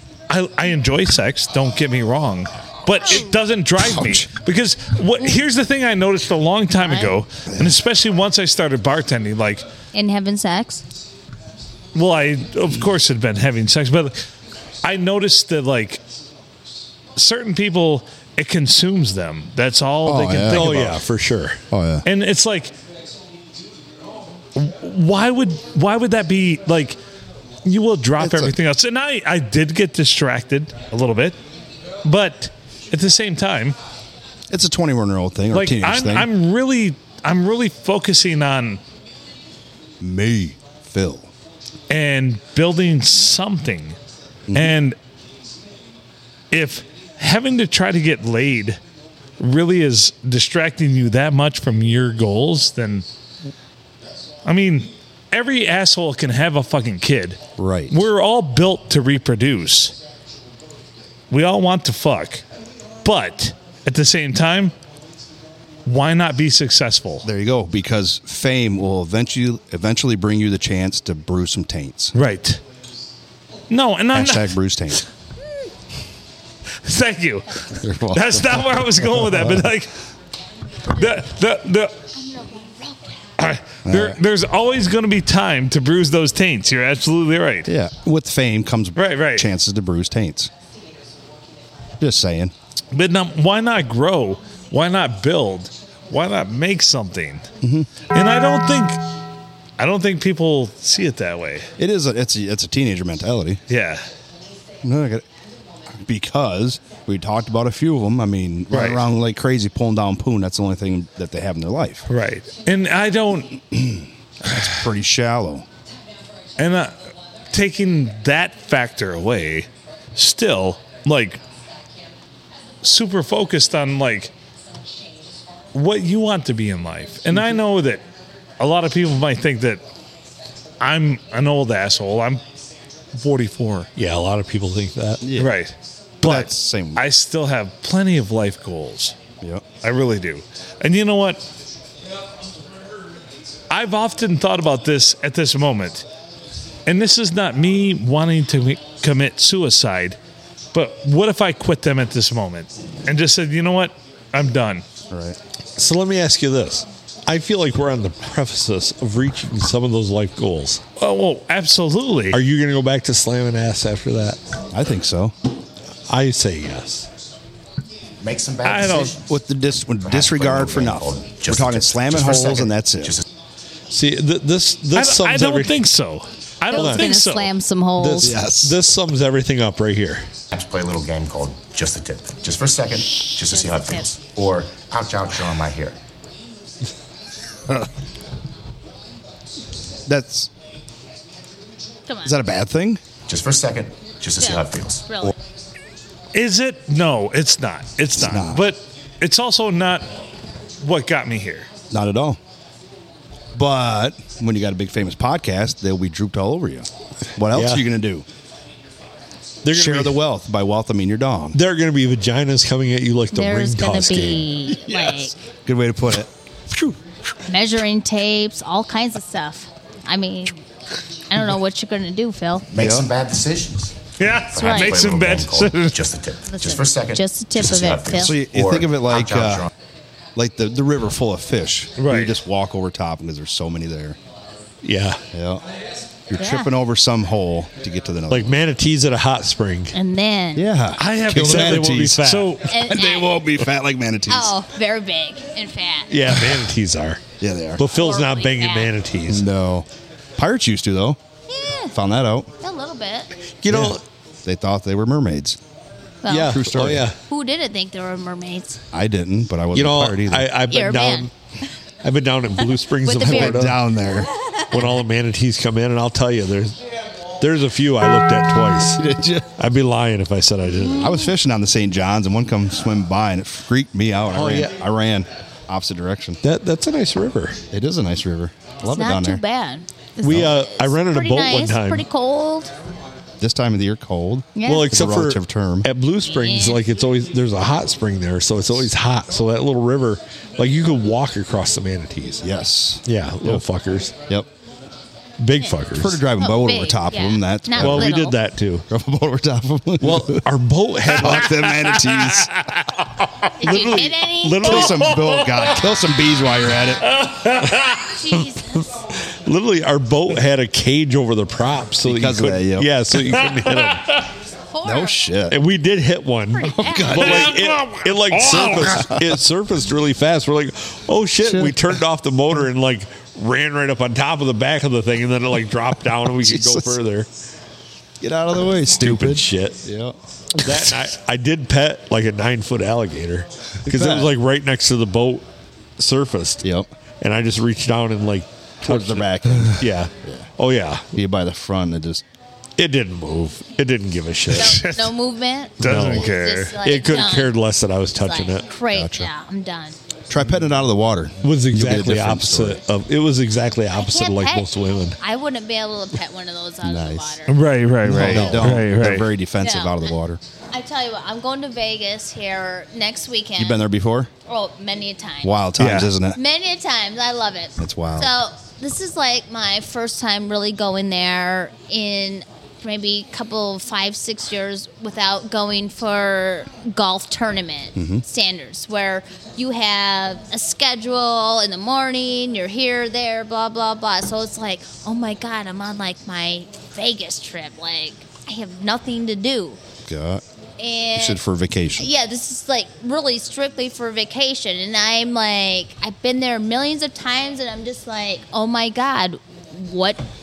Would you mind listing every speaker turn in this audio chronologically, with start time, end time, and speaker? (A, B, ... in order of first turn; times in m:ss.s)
0:00.3-0:09.6 A
0:03.0-0:03.4 B
0:03.8-0:04.3 C
0:06.8-0:07.1 B
0:09.9-0:10.8 B
0:12.0-0:14.2 A
0:14.8-0:16.0 A
0:17.2-0:21.0 A
0:20.0-0:20.8 C
0:20.5-0:21.6 D
0:21.7-0:22.1 C
0:22.0-0:22.7 A
0:24.6-0:27.0 A
0:27.6-0:31.4 A
0:28.2-0:28.6 C
0:32.0-0:33.8 A
0:34.5-0:36.3 C
0:35.5-0:38.8 A
0:40.0-0:41.3 C
0:41.9-0:44.0 A
0:44.5-0:44.7 C
0:44.5-0:45.0 A
0:46.5-0:48.8 A
0:49.4-0:53.0 A
0:54.4-0:57.4 A
0:57.6-0:58.0 C
0:57.9-1:00.0 A
1:01.3-1:02.4 A
1:03.0-1:04.7 A
1:05.9-1:07.3 A
1:07.2-1:12.1 C
1:12.1-1:12.6 A
1:13.7-1:14.6 A
1:14.1-1:15.0 C
1:16.8-1:19.9 A
1:17.8-1:19.7 C
1:20.9-1:22.0 A
1:22.1-1:23.2 B
1:23.4-1:27.7 A
1:23.8-1:24.2 C
1:27.7-1:30.5 C
1:29.0-1:29.5 A
1:32.0-1:32.5 C
1:32.9-1:37.4 A
1:37.6-1:37.9 C
1:38.1-1:39.0 A
1:39.8-1:41.7 A
1:41.8-1:43.6 C
1:43.7-1:44.0 A
1:44.8-1:45.2 C
1:45.9-1:52.1 C
1:48.7-1:49.0 A
1:52.1-1:53.6 A
1:53.7-1:55.7 C
1:56.6-1:57.0 A
1:57.5-2:01.4 A
2:02.8-2:04.3 A
2:05.7-2:08.0 A
2:08.6-2:09.8 A
2:10.8-2:12.4 A
2:13.1-2:13.9 A
2:14.0-2:15.2 D
2:15.2-2:15.6 C
2:15.4-2:19.1 A
2:16.2-2:17.1 C
2:19.8-2:21.4 A
2:23.7-2:26.1 A
2:26.9-2:30.2 A
2:30.7-2:34.8 A
2:35.1-2:35.4 C
2:35.8-2:40.8 D
2:41.0-2:42.4 A
2:42.3-2:44.4 D
2:44.7-2:45.3 C
2:46.1-2:47.1 D
2:48.2-2:49.3 E
2:48.6-2:49.1 A
2:49.2-2:53.2 C
2:50.0-2:53.3 E
2:53.9-2:55.8 D
2:55.0-2:57.5 A
2:56.7-2:58.4 B
2:56.7-2:57.2 D
2:58.0-3:00.3 D
2:58.2-2:58.8 C
3:00.5-3:06.0 E
3:03.3-3:04.1 B
3:10.1-3:10.5 C
3:12.1-3:12.4 B
3:12.2-3:13.0 C
3:13.3-3:15.3 E
3:14.4-3:15.3 B
3:16.3-3:20.1 A
3:18.2-3:18.7 C
3:20.8-3:21.7 A
3:21.9-3:22.4 C
3:23.6-3:28.3 C
3:27.6-3:27.8 D
3:29.6-3:30.2 D
3:29.7-3:31.6 C
3:31.5-3:34.5 D
3:33.3-3:35.4 B
3:35.6-3:36.3 C
3:37.5-3:40.6 B
3:41.3-3:42.7 B
3:42.7-3:49.7 E
3:42.8-3:43.1 C
3:44.2-3:46.0 A
3:44.6-3:45.0 B
3:46.5-3:48.4 B
3:48.2-3:49.7 C
3:50.4-3:54.2 C
3:52.0-3:52.4 A
3:54.8-3:55.2 D
3:55.3-3:55.6 C
3:56.3-3:58.6 C
3:56.4-3:56.7 B
3:58.3-3:59.9 D
3:59.9-4:00.7 B
4:00.6-4:04.6 C
4:01.0-4:02.7 A
4:01.3-4:02.6 D
4:02.7-4:03.4 B
4:04.3-4:06.1 B
4:06.1-4:07.2 D
4:06.3-4:06.7 C
4:07.4-4:07.8 C
4:07.8-4:09.4 D
4:07.9-4:08.9 B
4:09.3-4:11.2 C
4:11.5-4:12.0 B
4:11.9-4:12.5 C
4:12.6-4:13.3 B
4:13.6-4:14.0 D
4:13.7-4:15.6 C
4:16.2-4:16.6 B
4:16.3-4:17.2 D
4:16.3-4:17.1 C
4:17.2-4:18.8 B
4:18.9-4:20.5 C
4:19.7-4:21.3 D
4:20.7-4:21.3 B
4:22.0-4:23.8 D
4:22.6-4:24.9 B
4:23.2-4:24.3 C
4:24.6-4:26.8 D
4:27.4-4:29.0 D
4:29.0-4:29.5 C
4:29.6-4:31.1 D
4:30.7-4:31.3 B
4:31.0-4:36.4 C
4:34.3-4:34.7 D
4:36.4-4:37.6 D
4:37.7-4:39.4 C
4:38.8-4:42.7 B
4:40.2-4:42.1 D
4:43.4-4:45.9 C
4:44.6-4:44.9 B
4:44.6-4:52.4 D
4:46.2-4:46.8 B
4:52.4-4:53.6 C
4:53.0-4:54.1 D
4:55.4-4:56.2 D
4:55.9-4:58.1 C
4:56.4-4:58.4 B
4:57.8-4:58.8 D
4:58.9-5:00.4 C
5:00.0-5:01.6 D
5:01.1-5:02.5 C
5:01.3-5:03.0 A
5:03.6-5:05.0 B
5:03.6-5:04.7 D
5:04.6-5:05.8 A
5:04.6-5:07.1 C
5:07.1-5:08.1 A
5:07.7-5:08.5 D
5:08.0-5:08.9 B
5:09.1-5:14.1 D
5:12.0-5:12.9 C
5:13.3-5:14.3 A
5:14.7-5:15.2 B
5:14.8-5:15.6 C
5:15.5-5:27.3 D
5:16.5-5:17.4 B
5:16.7-5:17.6 C
5:17.1-5:19.1 A
5:18.8-5:19.4 C
5:21.4-5:22.0 C
5:26.4-5:27.0 C
5:28.2-5:31.0 C
5:29.0-5:29.8 D
5:30.6-5:35.4 D
5:33.8-5:34.3 C
5:36.0-5:36.6 D
5:36.6-5:36.9 C
5:37.2-5:41.0 D
5:38.8-5:40.5 C
5:41.1-5:42.2 C
5:42.8-5:44.8 D
5:44.5-5:47.6 B
5:44.5-5:45.1 A
5:45.8-5:46.8 A
5:45.8-5:48.7 D
5:48.2-5:50.0 B
5:48.9-5:49.3 C
5:50.3-5:52.8 C
5:51.4-5:55.2 D
5:53.9-5:57.6 B
5:56.8-5:57.4 C
5:57.5-5:59.3 A
5:58.0-6:00.4 C
5:58.1-5:58.9 D
5:59.6-6:00.1 B
6:00.7-6:03.8 B
6:03.6-6:04.3 C
6:04.5-6:05.6 B
6:05.4-6:06.4 C
6:05.8-6:06.1 A
6:06.3-6:29.8 B
6:07.8-6:08.3 C
6:18.0-6:18.2 C
6:30.0-6:30.4 C
6:30.8-6:31.4 B
6:31.1-6:32.1 C
6:32.0-6:40.2 B